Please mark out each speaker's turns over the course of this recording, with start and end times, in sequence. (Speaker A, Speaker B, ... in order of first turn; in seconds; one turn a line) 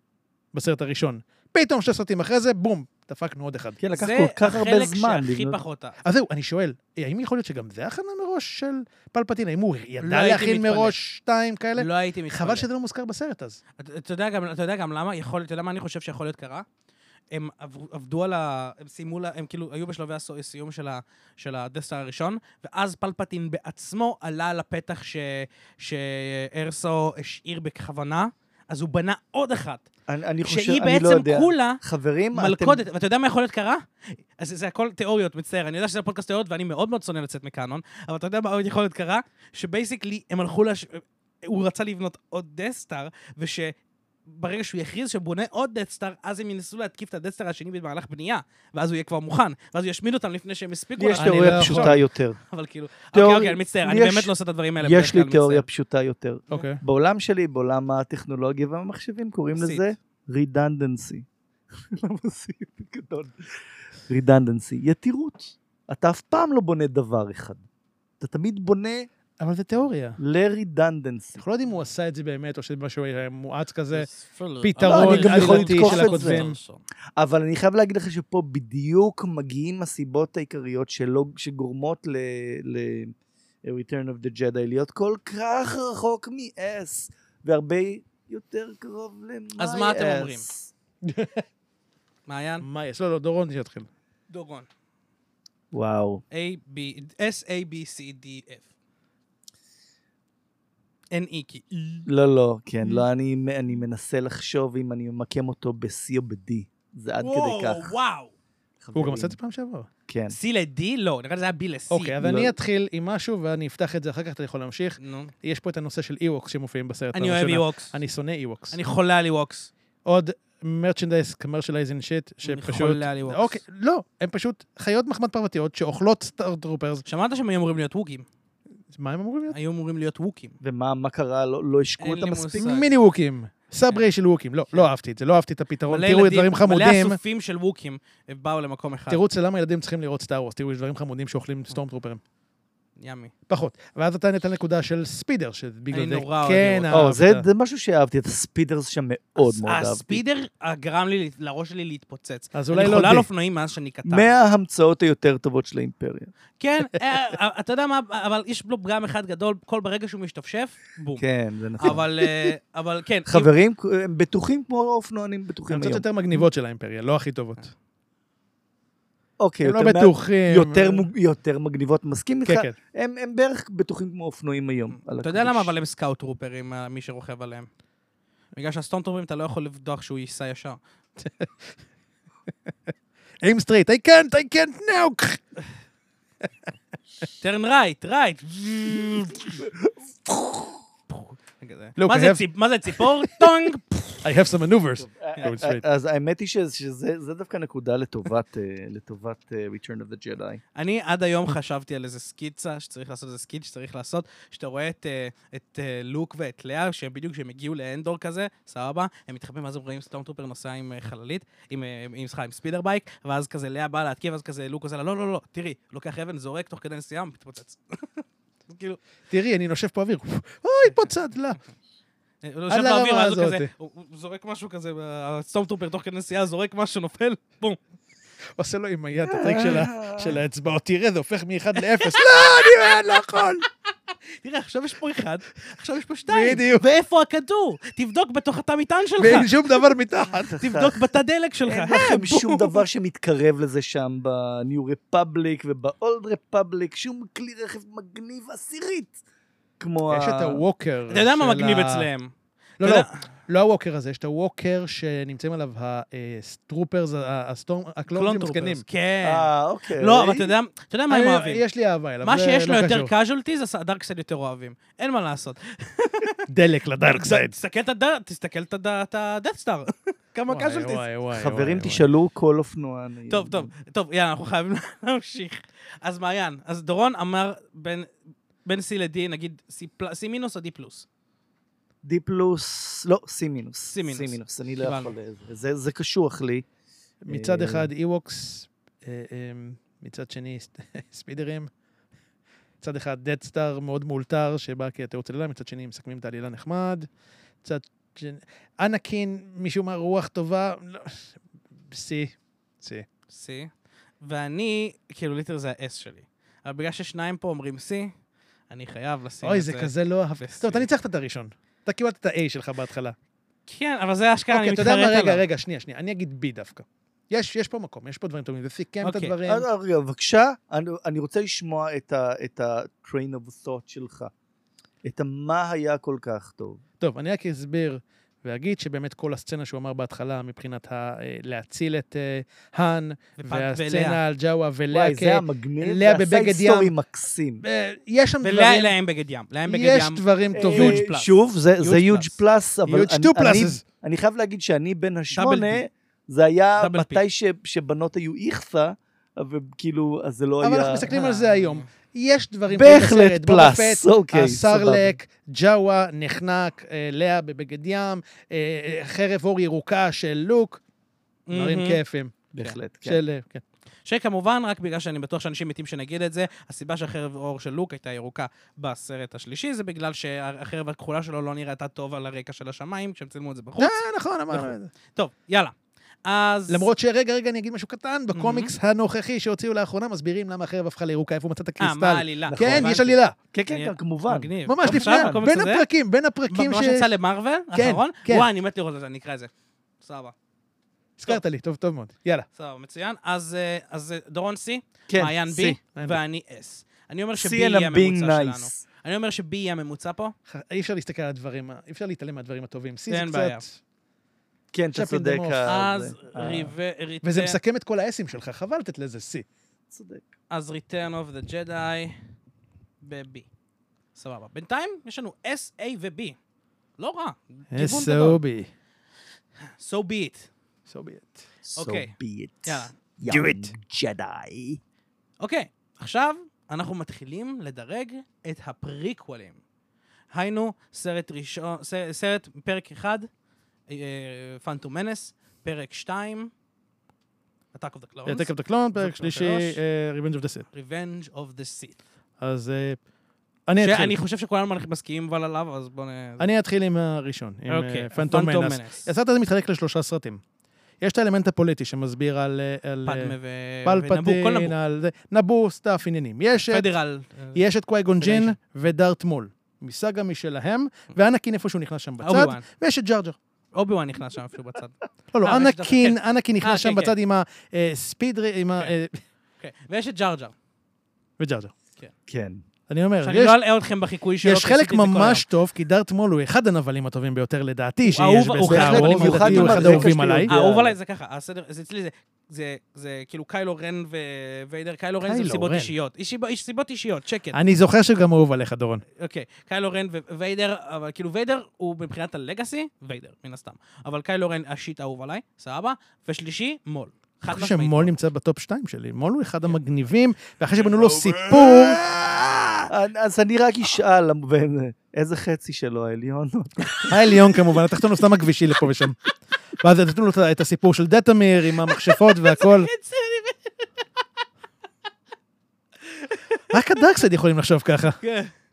Speaker A: 0.5-3.8
Speaker B: 3.8-5.6
Speaker C: 3.9-6.0
Speaker A: 6.0-13.6
Speaker C: 10.0-11.0
Speaker C: 11.8-12.7
Speaker C: 13.8-16.7
Speaker C: 17.3-29.9
Speaker B: 30.1-32.8
Speaker C: 30.4-31.8
Speaker C: 32.3-55.7
Speaker B: 51.0-52.4
Speaker A: 51.2-52.0
Speaker B: 53.1-63.4
Speaker A: 56.5-56.8
Speaker C: 59.6-59.9
Speaker B: 64.1-67.6
Speaker B: 68.2-69.1
Speaker A: 69.4-70.2
Speaker B: 70.2-71.4
Speaker A: 71.4-74.1
Speaker C: 73.9-76.8
Speaker A: 74.6-76.6
Speaker B: 74.8-76.4
Speaker B: 77.2-90.7
Speaker C: 89.6-90.5
Speaker A: 91.0-91.5
Speaker C: 92.3-92.7
Speaker A: 92.6-93.9
Speaker C: 94.3-94.7
Speaker B: 95.7-96.2
Speaker C: 96.3-98.7
Speaker C: 101.1-101.7
Speaker B: 102.1-107.9
Speaker C: 107.2-108.3
Speaker B: 108.8-109.3
Speaker A: 109.0-109.9
Speaker B: 110.1-110.4
Speaker C: 110.3-112.2
Speaker A: 111.9-118.8
Speaker B: 112.2-112.5
Speaker C: 115.0-115.3
Speaker C: 117.1-118.0
Speaker C: 118.7-119.7
Speaker A: 120.0-127.0
Speaker C: 122.4-123.6
Speaker C: 127.0-128.3
Speaker A: 128.9-129.6
Speaker C: 129.5-130.6
Speaker B: 130.6-132.7
Speaker C: 132.0-132.9
Speaker A: 132.6-137.2
Speaker C: 135.9-139.2
Speaker A: 139.1-142.2
Speaker C: 143.0-143.3
Speaker A: 143.5-147.5
Speaker C: 145.9-147.0
Speaker B: 146.9-150.2
Speaker C: 149.4-154.3
Speaker A: 152.5-153.3
Speaker B: 154.1-156.3
Speaker C: 156.6-161.2
Speaker B: 161.2-162.5
Speaker C: 161.8-163.5
Speaker B: 163.3-166.1
Speaker A: 165.7-167.7
Speaker B: 169.4-175.7
Speaker A: 169.6-171.1
Speaker A: 172.5-172.8
Speaker C: 174.9-177.7
Speaker C: 178.6-180.8
Speaker A: 181.2-181.8
Speaker A: 183.4-185.6
Speaker C: 187.4-189.6
Speaker B: 189.6-190.7
Speaker C: 191.1-194.3
Speaker A: 192.0-193.7
Speaker A: 194.2-195.8
Speaker B: 195.0-200.6
Speaker C: 200.8-219.0
Speaker A: 219.3-221.6
Speaker C: 222.4-227.8
Speaker A: 222.7-223.7
Speaker A: 228.6-233.7
Speaker B: 229.3-230.4
Speaker C: 234.3-239.5
Speaker A: 236.3-236.8
Speaker A: 239.2-240.6
Speaker B: 240.5-241.1
Speaker C: 240.6-242.8
Speaker B: 241.7-249.2
Speaker B: 249.8-250.6
Speaker A: 250.1-252.1
Speaker C: 251.1-253.2
Speaker A: 252.8-258.8
Speaker C: 258.1-261.6
Speaker B: 259.2-260.5
Speaker A: 261.1-263.1
Speaker C: 262.2-266.4
Speaker A: 266.5-267.6
Speaker C: 267.1-271.1
Speaker A: 270.5-272.1
Speaker B: 271.3-273.7
Speaker C: 273.3-278.1
Speaker C: 278.6-281.1
Speaker B: 282.0-286.6
Speaker C: 283.8-285.1
Speaker A: 287.2-291.7
Speaker B: 287.3-287.9
Speaker A: 292.8-297.1
Speaker A: 297.6-303.1
Speaker C: 303.3-303.7
Speaker C: 304.2-308.1
Speaker C: 308.7-310.9
Speaker A: 309.4-313.2
Speaker C: 313.7-315.4
Speaker A: 314.5-319.7
Speaker C: 319.0-319.4
Speaker B: 319.5-324.3
Speaker B: 325.0-326.8
Speaker A: 327.0-336.9
Speaker C: 333.4-334.2
Speaker B: 334.9-337.6
Speaker A: 337.6-338.9
Speaker C: 338.4-342.4
Speaker A: 339.7-341.0
Speaker B: 340.5-351.1
Speaker A: 342.9-343.8
Speaker C: 345.4-345.8
Speaker C: 346.8-347.2
Speaker A: 350.6-360.8
Speaker C: 351.1-351.9
Speaker B: 352.7-355.1
Speaker C: 361.5-362.0
Speaker A: 361.5-362.4
Speaker B: 362.5-363.2
Speaker A: 363.1-363.6
Speaker C: 364.1-376.9
Speaker A: 373.8-374.9
Speaker A: 376.7-383.4
Speaker C: 378.3-378.7
Speaker C: 381.8-383.2
Speaker B: 382.5-385.4
Speaker C: 383.7-385.9
Speaker A: 384.7-387.1
Speaker C: 386.5-390.4
Speaker A: 387.7-388.5
Speaker A: 391.2-392.5
Speaker C: 392.6-400.4
Speaker B: 395.1-395.8
Speaker A: 395.8-396.2
Speaker B: 397.4-398.8
Speaker A: 400.5-403.8
Speaker C: 403.1-403.6
Speaker B: 404.7-406.8
Speaker A: 404.9-405.8
Speaker C: 405.7-407.6
Speaker A: 407.2-409.5
Speaker B: 409.9-410.3
Speaker C: 410.5-412.3
Speaker C: 413.0-413.5
Speaker C: 414.1-416.4
Speaker C: 417.0-418.4
Speaker A: 417.7-418.7
Speaker C: 419.8-420.5
Speaker A: 420.9-421.4
Speaker B: 421.6-424.8
Speaker C: 421.8-422.1
Speaker C: 422.7-422.9
Speaker A: 423.3-423.8
Speaker C: 425.4-429.6
Speaker C: 430.3-433.3
Speaker C: 433.9-436.5
Speaker C: 437.7-439.8
Speaker A: 438.3-440.7
Speaker C: 440.7-442.0
Speaker A: 442.4-443.0
Speaker A: 443.7-444.2
Speaker C: 443.8-446.5
Speaker A: 446.4-450.4
Speaker C: 447.7-449.1
Speaker A: 451.0-456.9
Speaker C: 453.1-454.8
Speaker C: 456.7-457.6
Speaker A: 457.5-463.4
Speaker C: 458.2-458.6
Speaker C: 462.2-462.6
Speaker C: 463.7-467.1
Speaker A: 465.3-469.2
Speaker C: 469.6-470.5
Speaker A: 471.4-471.7
Speaker B: 472.3-472.6
Speaker A: 472.9-473.6
Speaker C: 473.2-475.5
Speaker A: 474.4-480.5
Speaker C: 478.1-487.6
Speaker B: 478.6-481.0
Speaker A: 485.2-485.9
Speaker A: 487.5-489.0
Speaker C: 489.2-498.2
Speaker A: 497.5-502.7
Speaker B: 501.0-502.1
Speaker B: 502.9-507.2
Speaker C: 507.0-507.4
Speaker A: 507.1-509.2
Speaker A: 509.8-512.9
Speaker C: 511.9-513.9
Speaker C: 516.1-516.7
Speaker A: 516.7-518.2
Speaker C: 518.2-518.5